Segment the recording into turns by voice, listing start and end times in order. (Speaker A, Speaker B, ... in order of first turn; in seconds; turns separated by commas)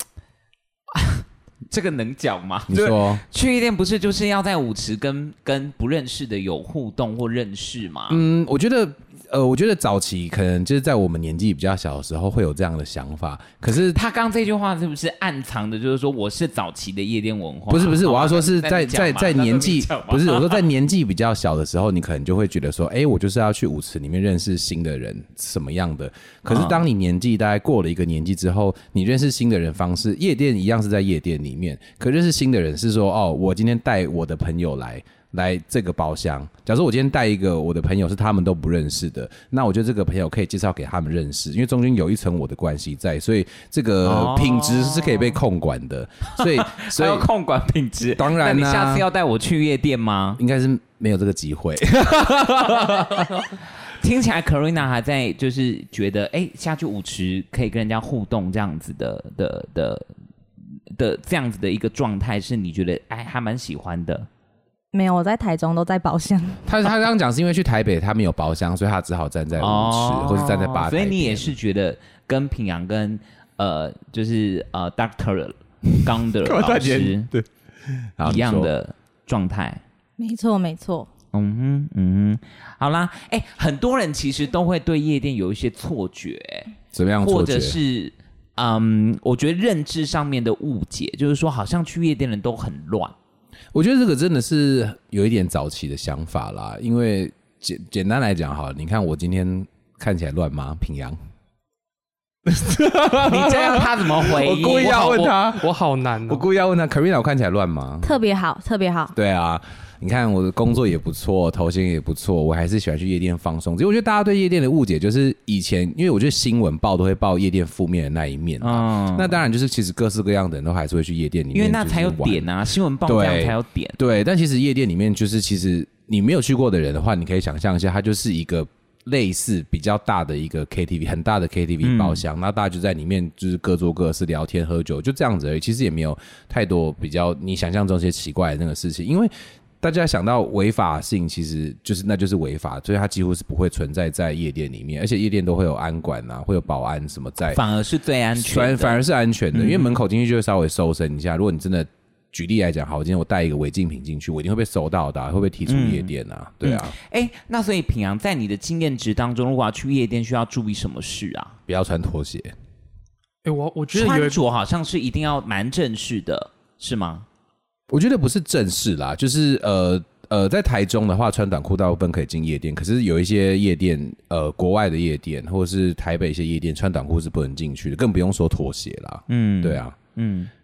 Speaker A: 0.9-8.2, Speaker B: 2.7-3.2, Speaker B: 8.1-14.0, Speaker A: 13.8-20.7, Speaker B: 17.7-47.3, Speaker A: 26.5-26.8, Speaker A: 44.0-45.4, Speaker A: 46.4-50.4, Speaker B: 48.2-49.1, Speaker B: 50.4-53.5, Speaker A: 53.9-60.1, Speaker A: 60.9-64.3, Speaker C: 64.9-66.6, Speaker B: 66.7-71.5, Speaker A: 69.6-77.3, Speaker B: 76.4-78.7, Speaker A: 78.2-79.8, Speaker C: 80.2-81.1, Speaker A: 81.3-93.2, Speaker B: 86.9-87.8, Speaker B: 93.7-101.2, Speaker B: 102.5-105.7, Speaker A: 103.2-105.3, Speaker D: 105.4-106.4, Speaker B: 106.3-108.1, Speaker C: 108.0-109.2, Speaker B: 109.2-122.5, Speaker A: 118.6-119.4, Speaker A: 121.5-124.0, Speaker B: 123.1-147.6, Speaker A: 131.8-132.2, Speaker A: 147.5-149.0, Speaker B: 148.4-156.9, Speaker A: 149.5-150.0, Speaker A: 155.7-156.1, Speaker A: 156.6-161.6, Speaker B: 161.7-162.5, Speaker D: 163.4-164.4, Speaker A: 163.9-167.3, Speaker B: 167.9-179.9, Speaker A: 179.3-180.5